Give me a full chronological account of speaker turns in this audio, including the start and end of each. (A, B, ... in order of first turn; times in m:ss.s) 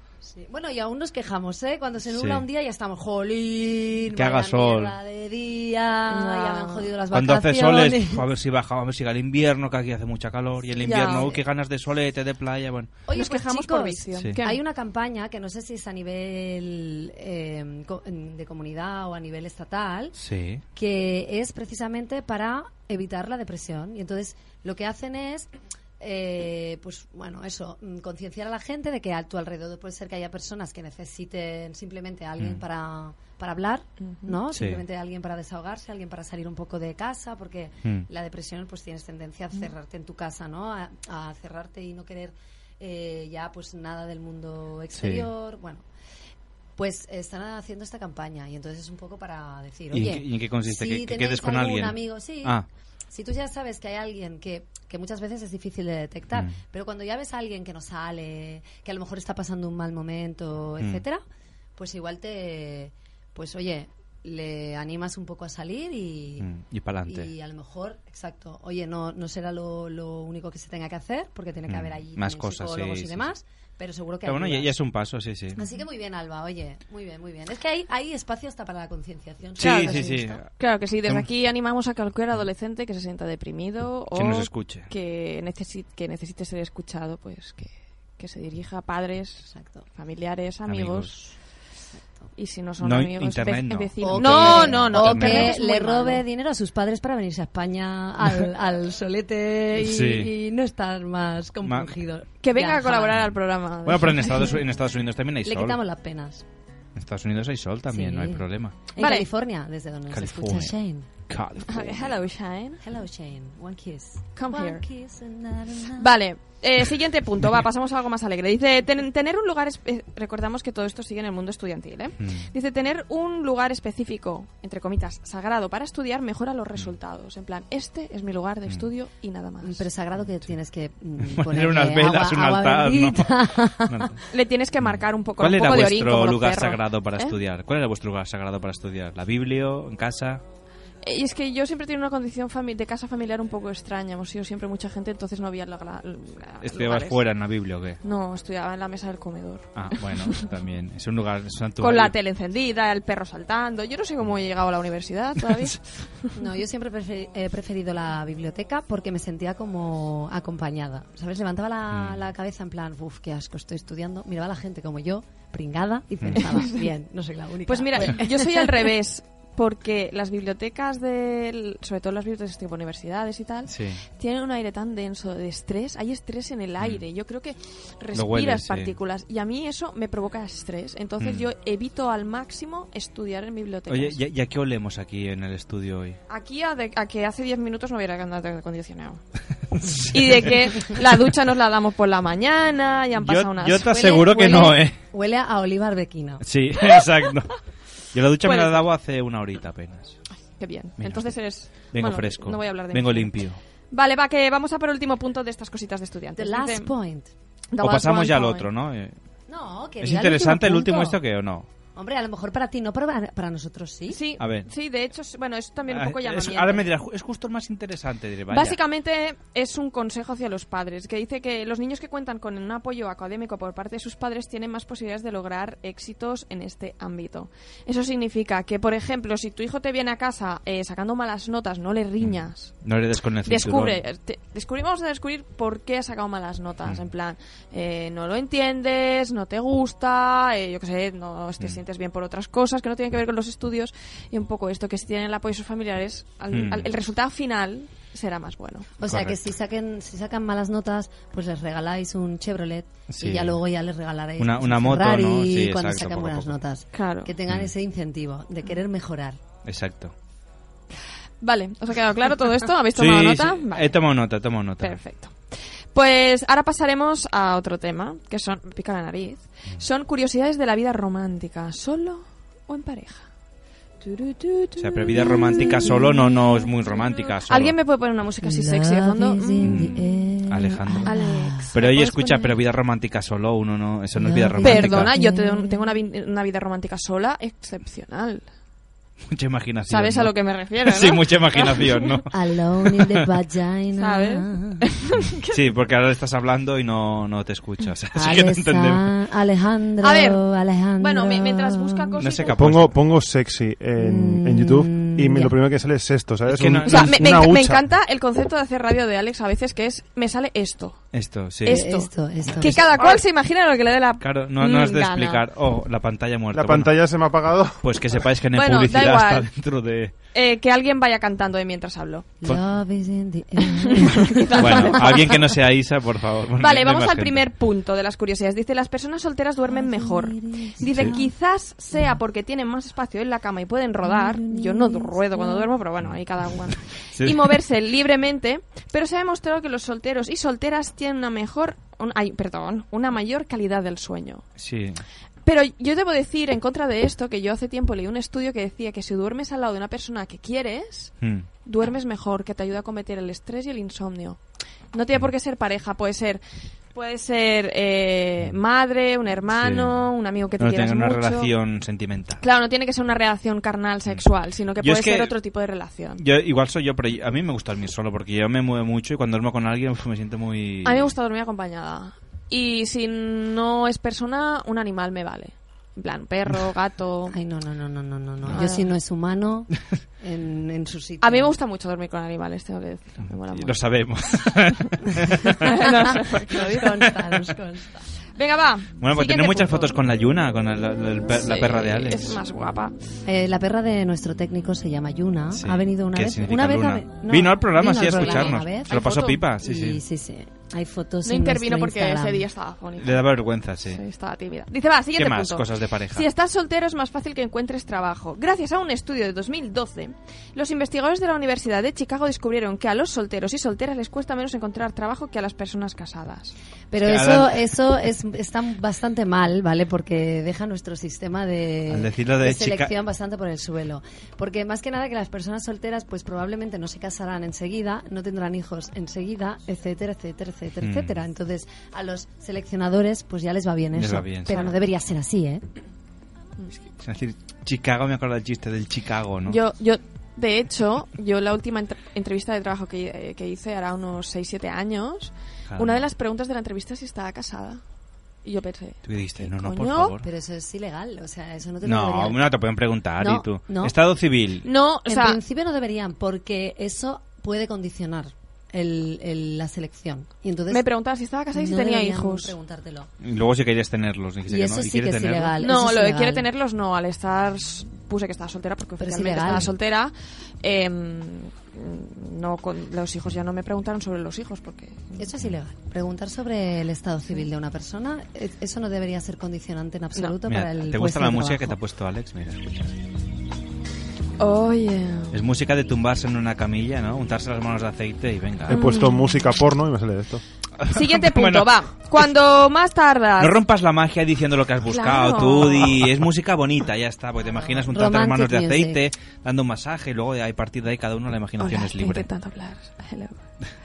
0:00.2-0:08.2 A
0:02.1-0:02.4 B
0:04.2-0:04.9 B
0:06.1-0:06.9 C
0:07.1-0:13.0 B
0:10.8-0:11.3 C
0:10.8-0:11.4 A
0:13.1-0:20.2 A
0:13.1-0:14.6 C
0:20.2-0:20.6 B
0:20.8-0:45.8 A
0:34.0-0:34.4 C
0:34.5-0:34.8 B
0:45.0-0:45.3 B
0:46.8-0:52.6 A
0:49.9-0:52.6 B
0:53.1-1:01.2 A
1:01.8-1:06.5 A
1:06.4-1:07.3 B
1:07.1-1:14.7 A
1:11.7-1:13.3 B
1:14.2-1:15.6 B
1:15.6-1:20.4 A
1:19.6-1:21.3 B
1:19.6-1:31.2 C
1:24.2-1:24.9 B
1:29.5-1:29.8 A
1:30.7-1:31.3 B
1:32.4-1:36.2 C
1:32.8-1:35.6 B
1:34.0-1:43.2 A
1:39.8-1:40.3 B
1:41.6-1:41.9 B
1:42.4-1:44.6 C
1:43.8-1:45.8 B
1:45.4-1:46.4 A
1:47.0-1:48.9 B
1:47.9-1:51.1 A
1:49.0-1:49.3 C
1:50.1-1:50.8 B
1:51.3-1:52.2 B
1:51.7-1:52.8 C
1:52.8-1:56.1 A
1:54.4-1:54.8 C
1:56.0-2:09.9 C
2:02.2-2:02.5 B
2:09.6-2:14.0 A
2:11.2-2:14.2 B
2:14.3-2:17.4 C
2:14.8-2:20.4 B
2:21.0-2:27.2 C
2:26.6-2:28.0 B
2:28.0-2:30.5 C
2:29.8-2:32.2 B
2:31.8-2:36.3 C
2:35.4-2:35.7 B
2:36.4-2:48.7 A
2:41.9-2:42.2 B
2:46.2-2:46.5 B
2:46.4-2:46.8 C
2:47.7-3:04.2 C
2:53.7-2:54.0 B
2:58.1-2:58.9 B
3:01.2-3:01.5 B
3:03.9-3:06.2 B
3:06.3-3:09.2 C
3:09.8-3:11.0 B
3:10.1-3:14.6 C
3:13.2-3:15.0 B
3:13.8-3:16.4 A
3:16.4-3:17.6 B
3:18.1-3:20.2 B
3:18.4-3:18.9 C
3:20.6-3:23.4 C
3:21.0-3:23.6 B
3:23.9-3:26.9 C
3:26.4-3:27.3 A
3:27.7-3:28.7 C
3:27.8-3:29.2 B
3:29.5-3:31.2 A
3:30.0-3:31.7 B
3:32.0-3:34.2 A
3:34.1-3:36.9 C
3:34.4-3:34.7 B
3:35.9-3:38.8 B
3:38.5-3:52.8 C
3:52.2-3:54.0 B
3:53.4-4:08.9 C
4:06.5-4:06.9 B
4:09.0-4:19.4 A
4:09.0-4:09.4 B
4:13.1-4:13.6 B
4:14.4-4:16.6 B
4:16.9-4:17.3 C
4:19.6-4:20.1 B
4:21.4-4:24.0 C
4:23.0-4:25.0 B
4:24.8-4:33.3 C
4:34.0-4:39.8 C
4:34.8-4:37.8 B
4:35.2-4:36.0 A
4:38.4-4:41.8 A
4:39.6-4:41.1 B
4:41.0-4:42.6 C
4:41.7-4:45.1 B
4:44.2-4:45.9 A
4:44.6-4:48.5 C
4:49.3-4:52.3 B
4:49.9-4:52.2 C
4:52.3-4:54.8 A
4:52.9-4:53.2 B
4:54.0-4:55.6 C
4:55.5-4:59.1 B
4:58.2-5:02.2 A
5:00.0-5:00.4 C
5:01.0-5:02.8 C
5:02.2-5:03.0 B
5:02.6-5:07.8 D
5:04.0-5:05.6 A
5:06.5-5:07.3 B
5:06.8-5:11.0 C
5:11.1-5:11.8 B
5:11.6-5:15.4 C
5:11.7-5:12.8 A
5:12.7-5:13.2 B
5:14.2-5:17.0 B
5:16.5-5:17.8 D
5:17.8-5:20.1 B
5:18.5-5:19.5 C
5:20.3-5:22.3 C
5:22.4-5:25.2 A
5:23.7-5:25.4 C
5:24.6-5:27.5 B
5:26.6-5:44.5 C
5:29.7-5:31.3 A
5:30.9-5:31.2 B
5:34.0-5:35.7 A
5:37.1-5:37.6 B
5:44.6-5:45.0 B
5:45.4-5:51.1 C
5:51.2-5:51.5 B
5:51.6-5:54.4 C
5:54.9-5:56.4 C
5:56.9-6:01.5 C
5:59.5-6:00.1 B
6:00.6-6:02.4 B
6:02.4-6:06.2 C
6:04.8-6:05.4 B
6:06.2-6:11.1 B
6:10.8-6:17.4 C
6:17.3-6:21.5 A
6:18.5-6:18.9 C
6:21.2-6:23.8 C
6:23.2-6:25.6 B
6:25.6-6:27.1 C
6:26.5-6:28.0 A
6:28.4-6:30.0 C
6:29.0-6:32.4 B
6:31.3-6:33.0 C
6:33.3-6:39.0 A
6:35.5-6:40.0 B
6:38.1-6:39.4 C
6:39.6-6:42.4 A
6:41.2-6:43.3 C
6:43.0-6:44.0 B
6:43.8-6:56.6 C
6:45.2-6:46.3 B
6:56.9-7:15.6 A
6:57.0-6:57.6 B
7:01.9-7:02.9 B
7:10.8-7:11.2 B
7:14.0-7:14.7 B
7:17.0-7:19.6 B
7:19.5-7:27.8 C
7:25.7-7:26.1 B
7:28.4-7:30.2 C
7:29.0-7:30.2 B
7:30.2-7:32.4 A
7:31.8-7:34.7 B
7:33.2-7:33.9 A
7:34.6-7:35.4 C
7:35.1-7:40.9 A
7:40.7-7:42.5 C
7:41.5-7:43.1 A
7:43.2-7:45.6 B
7:44.5-7:46.5 A
7:45.6-7:55.2 C
7:49.0-7:49.7 A
7:55.2-8:01.8 A
8:00.5-8:03.0 B
8:04.4-8:05.4 C
8:05.3-8:08.8 B
8:08.7-8:10.4 D
8:08.7-8:09.4 C
8:10.8-8:11.7 B
8:10.9-8:13.6 C
8:13.4-8:22.3 B
8:14.9-8:16.1 C
8:17.6-8:19.0 A
8:21.6-8:23.4 C